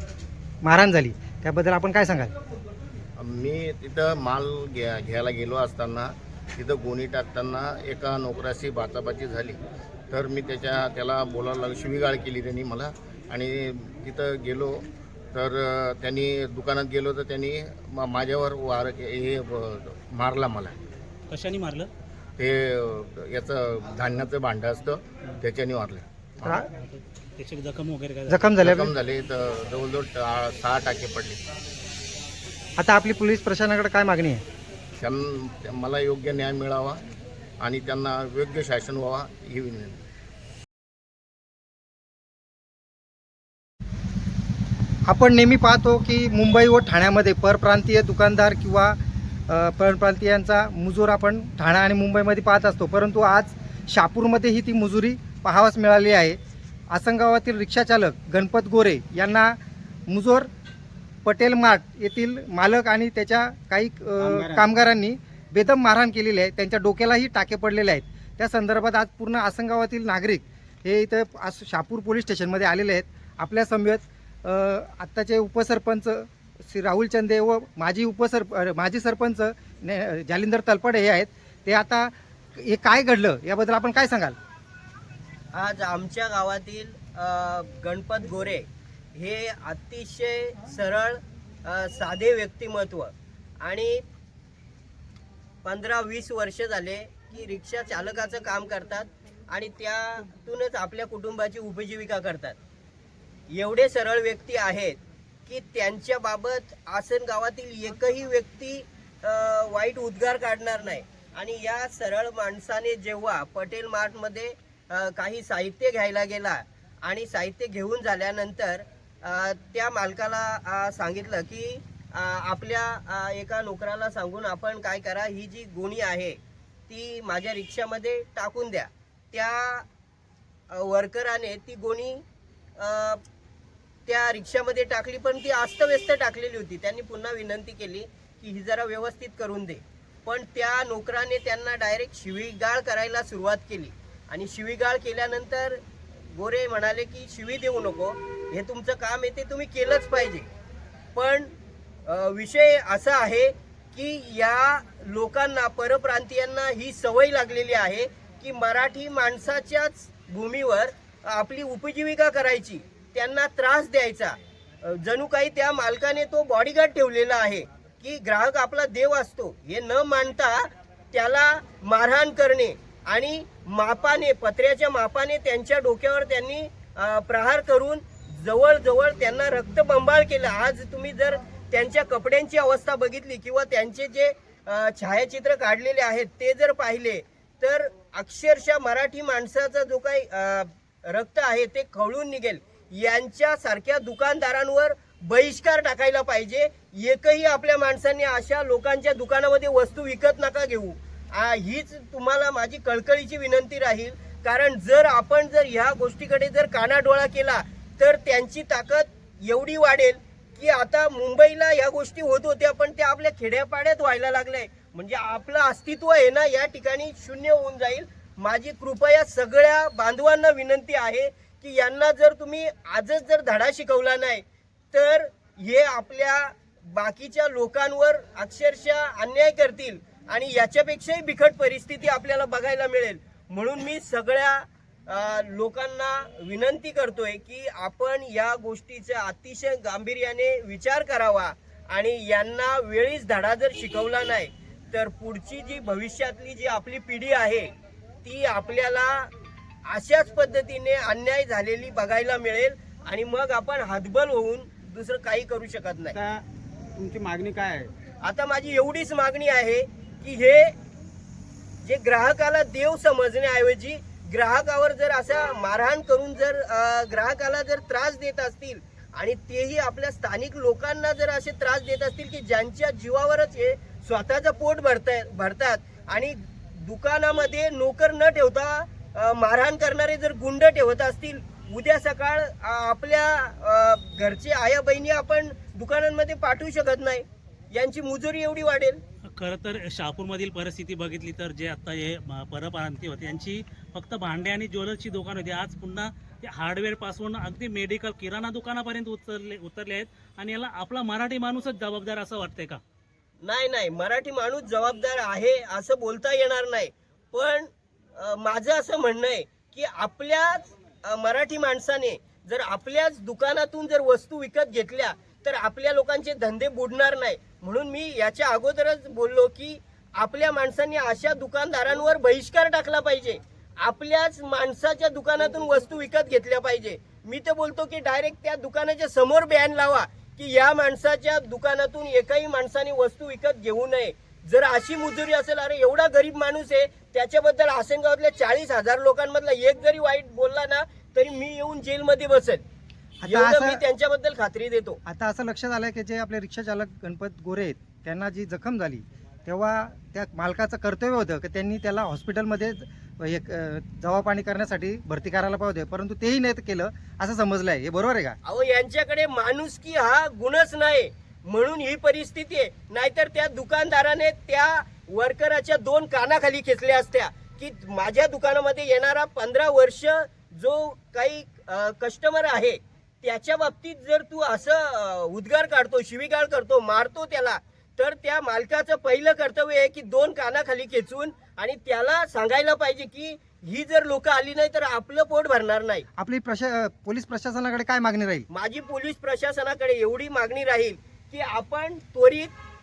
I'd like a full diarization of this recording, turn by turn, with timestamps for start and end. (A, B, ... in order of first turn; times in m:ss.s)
0:00.6-0:02.3 A
0:03.2-0:09.6 B
0:10.1-0:20.8 B
0:21.3-0:21.9 C
0:22.4-0:26.6 B
0:26.4-0:26.7 A
0:26.8-0:28.6 C
0:28.3-0:28.9 A
0:28.6-0:31.4 B
0:32.8-0:34.4 A
0:35.0-0:37.0 B
0:37.6-0:40.0 B
0:45.1-0:56.4 A
0:56.9-0:59.6 A
1:00.1-1:00.5 A
1:01.2-1:24.4 A
1:04.2-1:04.7 D
1:25.5-1:34.0 E
1:35.6-1:42.6 E
1:43.5-2:09.9 E
2:10.7-2:12.2 E
2:12.8-2:13.2 E
2:14.1-2:25.8 E
2:26.3-2:30.5 E
2:31.2-2:31.5 E
2:32.1-4:07.7 E
4:08.2-4:09.3 E
4:09.9-4:16.2 E
4:16.1-4:16.4 D
4:17.0-4:17.9 D
4:18.2-4:20.8 E
4:21.8-4:49.0 E
4:49.4-5:02.8 C
5:03.4-5:42.6 E
5:43.2-5:43.8 A
5:43.2-5:45.0 E
5:45.0-5:58.4 A
5:58.4-6:26.1 E
6:26.2-6:28.5 A
6:28.5-6:32.5 E